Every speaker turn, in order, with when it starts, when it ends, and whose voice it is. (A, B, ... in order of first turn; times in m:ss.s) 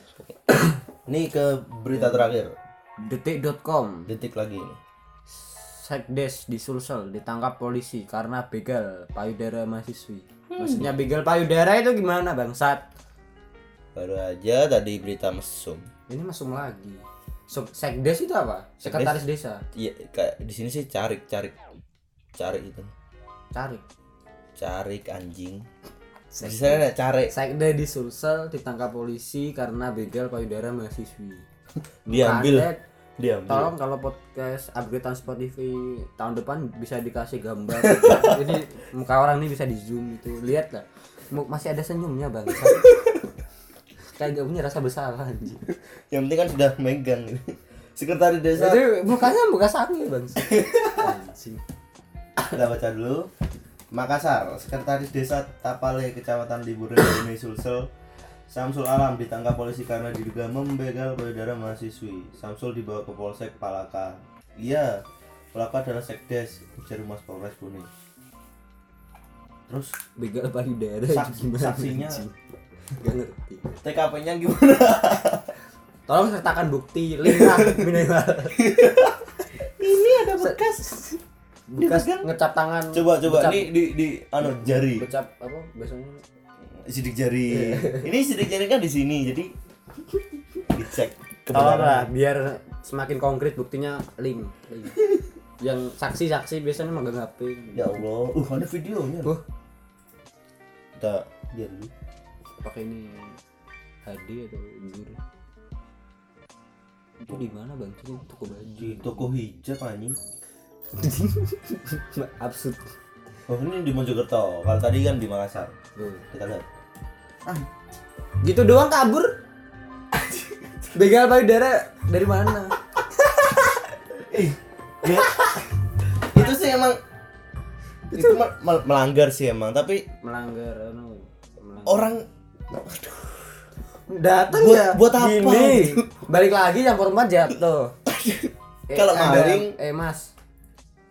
0:01.1-0:02.5 A
0:02.0-0:02.3 B
0:03.0-0:04.1 B
0:04.1-0:04.8 A
0:05.3-0:12.8 B
0:10.6-0:10.9 A
0:14.0-0:15.9 A
0:16.1-0:19.6 B
0:18.8-0:19.2 A
0:19.7-0:21.6 A
0:22.4-0:22.9 A
0:23.5-0:23.8 B
0:24.6-0:25.7 A
0:26.3-0:31.5 B
0:26.4-0:27.3 A
0:32.1-0:33.7 A
0:32.1-0:32.8 B
0:33.5-0:43.0 B
0:37.7-0:38.6 A
0:42.7-0:43.0 A
0:44.0-0:45.8 B
0:46.1-0:48.8 A
0:48.6-0:51.6 B
0:50.4-0:51.1 A
0:52.4-0:53.3 A
0:53.9-0:57.9 A
0:58.5-1:07.9 A
1:09.7-1:09.9 A
1:10.2-1:12.4 B
1:11.1-1:12.2 A
1:12.9-1:13.8 B
1:13.8-1:15.5 A
1:16.1-1:18.9 B
1:17.3-1:17.8 A
1:18.6-1:21.0 A
1:20.3-1:23.7 B
1:21.8-1:22.3 A
1:22.9-1:25.1 A
1:24.7-1:26.2 B
1:26.7-1:29.5 A
1:27.5-1:28.1 B
1:30.7-1:32.1 A
1:31.5-1:35.0 B
1:35.6-1:38.0 B
1:37.8-1:39.4 A
1:41.0-1:41.9 A
1:42.6-1:43.4 B
1:44.1-1:45.2 B
1:47.2-1:49.2 B
1:48.7-1:50.2 A
1:51.0-1:53.0 B
1:53.5-1:55.8 A
1:56.0-1:56.3 B
1:56.3-1:56.7 A
1:58.4-1:59.4 B
2:00.3-2:03.9 B
2:04.2-2:05.4 A
2:05.1-2:05.6 B
2:06.2-2:07.0 A
2:08.1-2:08.4 B
2:08.1-2:10.0 A
2:10.2-2:12.1 B
2:11.8-2:13.6 A
2:14.1-2:18.0 B
2:14.5-2:16.2 A
2:18.1-2:19.8 A
2:18.9-2:20.3 B